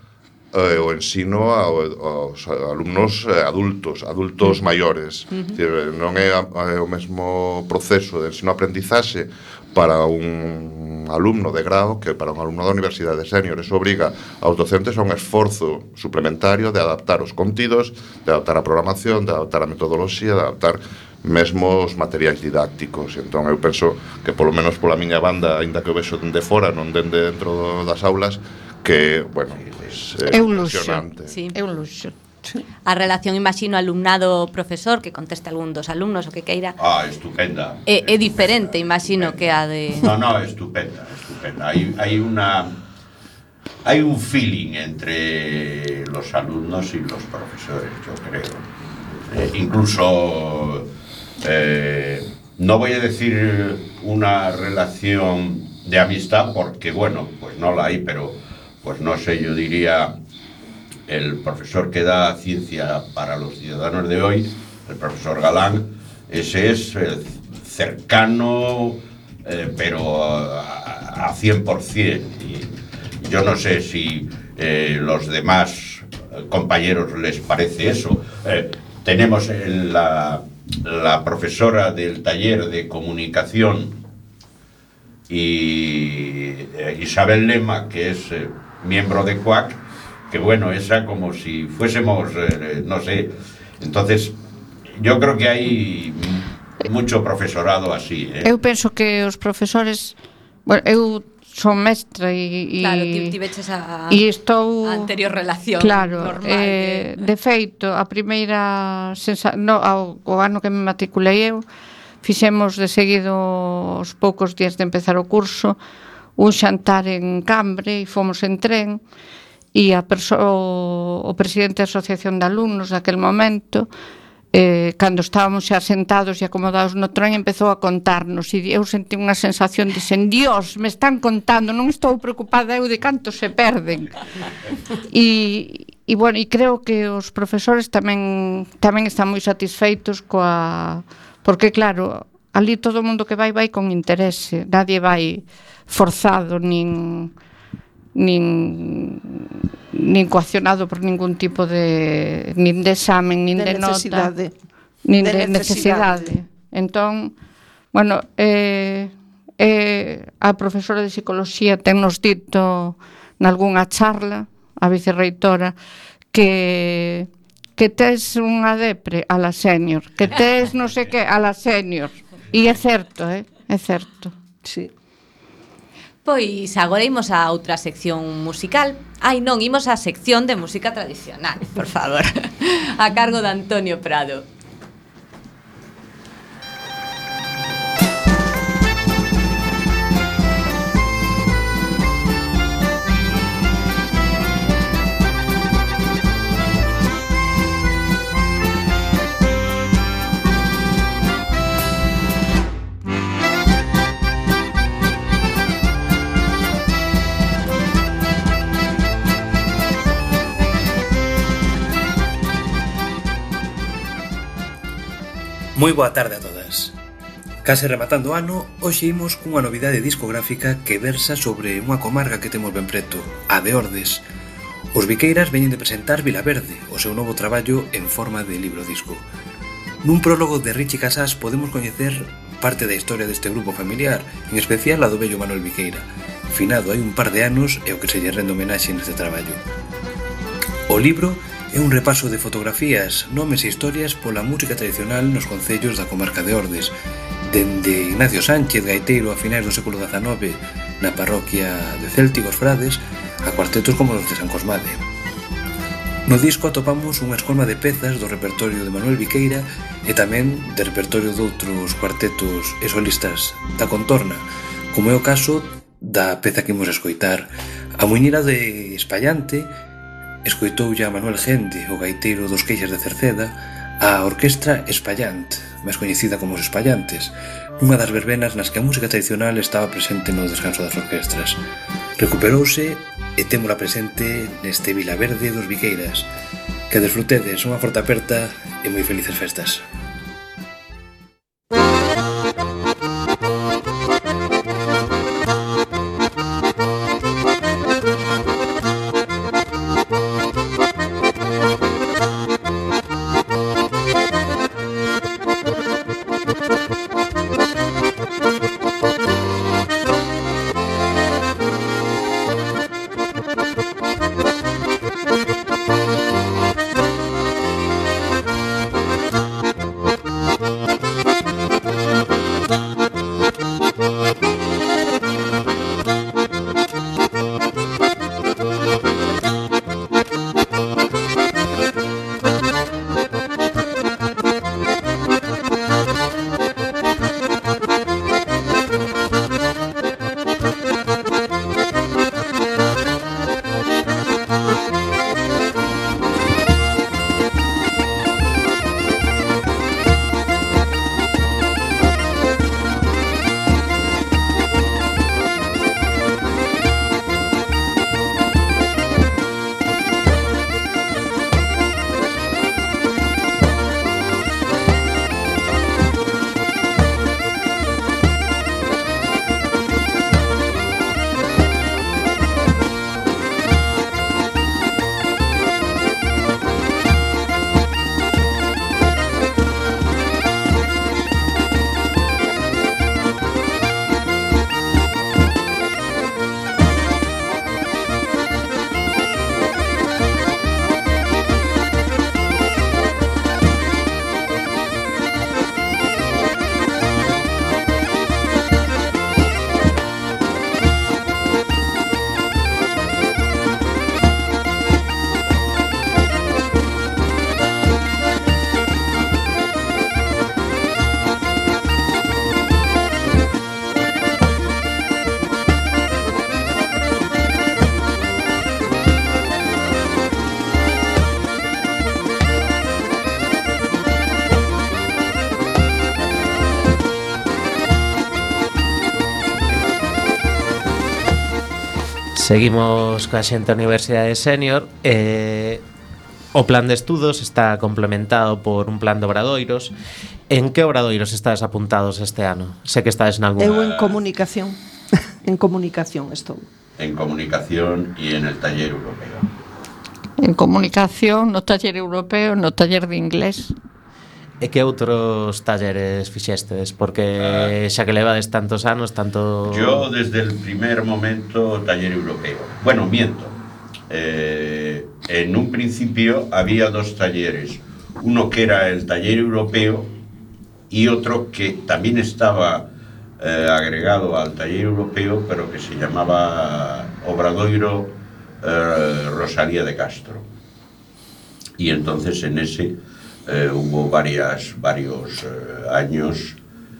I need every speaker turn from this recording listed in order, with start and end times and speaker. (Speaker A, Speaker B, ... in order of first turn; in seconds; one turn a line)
Speaker A: 0.5-31.4
Speaker B: 29.5-30.0
Speaker C: 30.3-32.1
Speaker D: 31.3-31.6
Speaker D: 32.8-36.8
Speaker B: 36.8-39.4
Speaker D: 37.9-40.1
Speaker B: 39.9-42.7
Speaker B: 43.8-48.6
Speaker B: 49.2-50.9
Speaker B: 51.4-60.1
Speaker B: 61.1-84.0
Speaker B: 85.3-94.3
Speaker B: 94.9-98.5
Speaker C: 98.4-103.4
Speaker D: 102.8-104.2
Speaker C: 104.1-105.1
Speaker D: 104.8-107.2
Speaker C: 105.8-111.6
Speaker C: 112.2-115.8
Speaker C: 116.4-119.0
Speaker C: 119.7-123.9
Speaker C: 124.5-134.2
Speaker C: 135.1-147.3
Speaker C: 148.1-154.3
Speaker E: 153.5-154.5
Speaker C: 155.1-157.3
Speaker E: 155.2-156.3
Speaker C: 157.9-165.7
Speaker C: 166.3-174.3
Speaker E: 174.6-174.9
Speaker D: 176.2-184.4
Speaker F: 215.7-216.9
Speaker F: 217.6-224.2
Speaker F: 224.9-229.3
Speaker F: 230.0-239.6
Speaker F: 240.9-246.9
Speaker F: 247.4-255.0
Speaker F: 256.2-269.7
Speaker F: 270.4-281.6
Speaker F: 282.2-286.3
Speaker F: 286.9-289.8
Speaker G: 432.4-435.8
Speaker G: 436.5-439.9
Speaker G: 440.5-443.8
Speaker E: 443.6-444.8
Speaker B: 443.7-444.1
Speaker E: 445.4-446.7
Speaker B: 447.0-449.5
Speaker C: 450.4-453.7
Speaker G: 454.6-460.1
Speaker B: 457.4-457.7
Speaker B: 459.7-463.6
Speaker B: 464.1-470.1
Speaker B: 470.9-472.9
Speaker B: 473.4-480.5
Speaker B: 481.8-482.9
Speaker B: 483.5-486.6